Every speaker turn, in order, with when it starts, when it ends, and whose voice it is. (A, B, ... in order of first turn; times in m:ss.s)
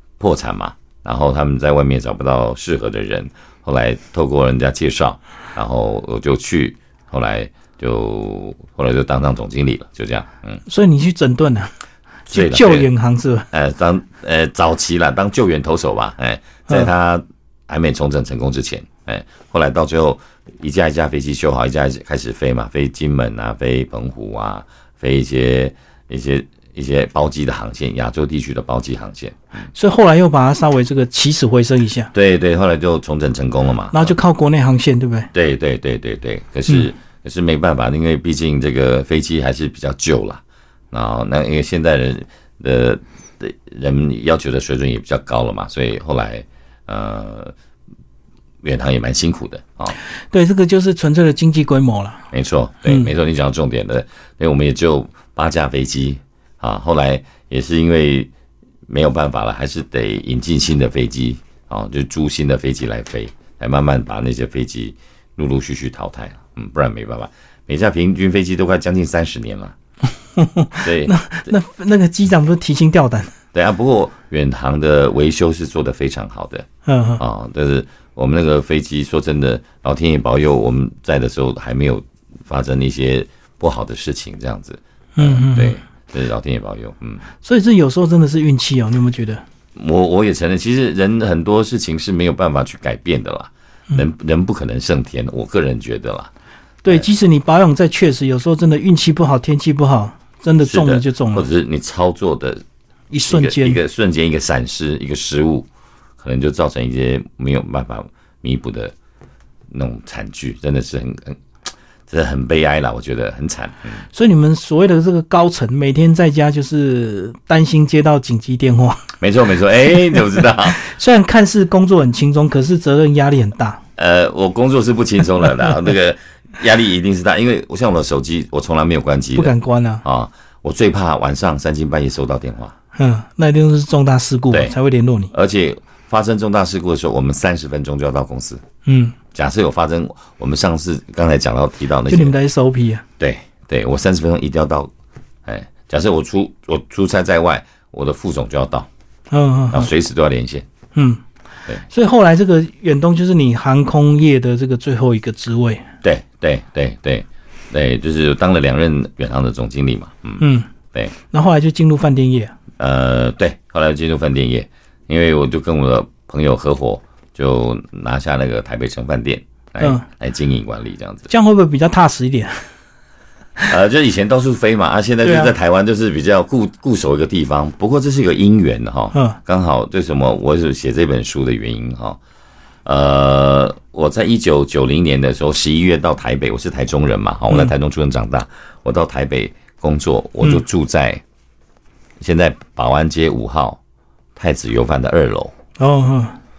0:00.2-0:10.6 A
0:10.7-0:11.7 B
0:12.3-0:13.5 B
0:12.3-0:12.9 A
0:13.5-0:29.7 A
0:29.7-0:32.1 B
0:32.1-0:34.1 A
0:33.9-0:35.3 B
0:35.3-0:40.4 A
0:40.9-0:47.5 A
0:48.6-0:50.0 A
0:50.3-0:52.2 B
0:52.3-0:58.3 A
0:58.9-1:09.8 A
1:10.4-1:13.3 B
1:10.8-1:11.5 A
1:13.5-1:16.7 A
1:16.9-1:17.2 B
1:17.2-1:27.2 A
1:25.2-1:25.8 B
1:27.4-1:29.4 B
1:29.8-1:36.3 A
1:36.8-1:41.5 B
1:40.6-1:42.6 A
1:43.1-1:43.8 B
1:43.3-1:45.7 A
1:46.2-1:48.9 A
1:49.7-1:51.4 A
1:52.1-1:54.0 A
1:54.1-1:59.1 B
1:59.2-2:00.8 A
2:00.2-2:03.8 B
2:04.0-2:12.8 A
2:09.4-2:10.0 B
2:13.0-2:15.3 B
2:14.5-2:14.8 A
2:15.3-2:18.6 A
2:18.9-2:19.2 B
2:19.3-2:22.3 A
2:22.1-2:23.0 B
2:23.2-2:24.9 A
2:25.4-2:28.9 A
2:29.3-2:29.9 B
2:29.7-2:30.7 A
2:31.0-2:31.2 B
2:31.9-2:35.8 B
2:36.0-2:41.1 A
2:40.4-2:40.7 B
2:41.3-2:42.5 B
2:42.8-2:51.3 A
2:51.3-2:52.7 B
2:53.7-3:02.2 A
2:55.2-2:55.5 B
2:59.1-2:59.4 B
3:02.8-3:11.2 A
3:12.2-3:13.8 A
3:14.4-3:15.5 A
3:15.8-3:16.4 B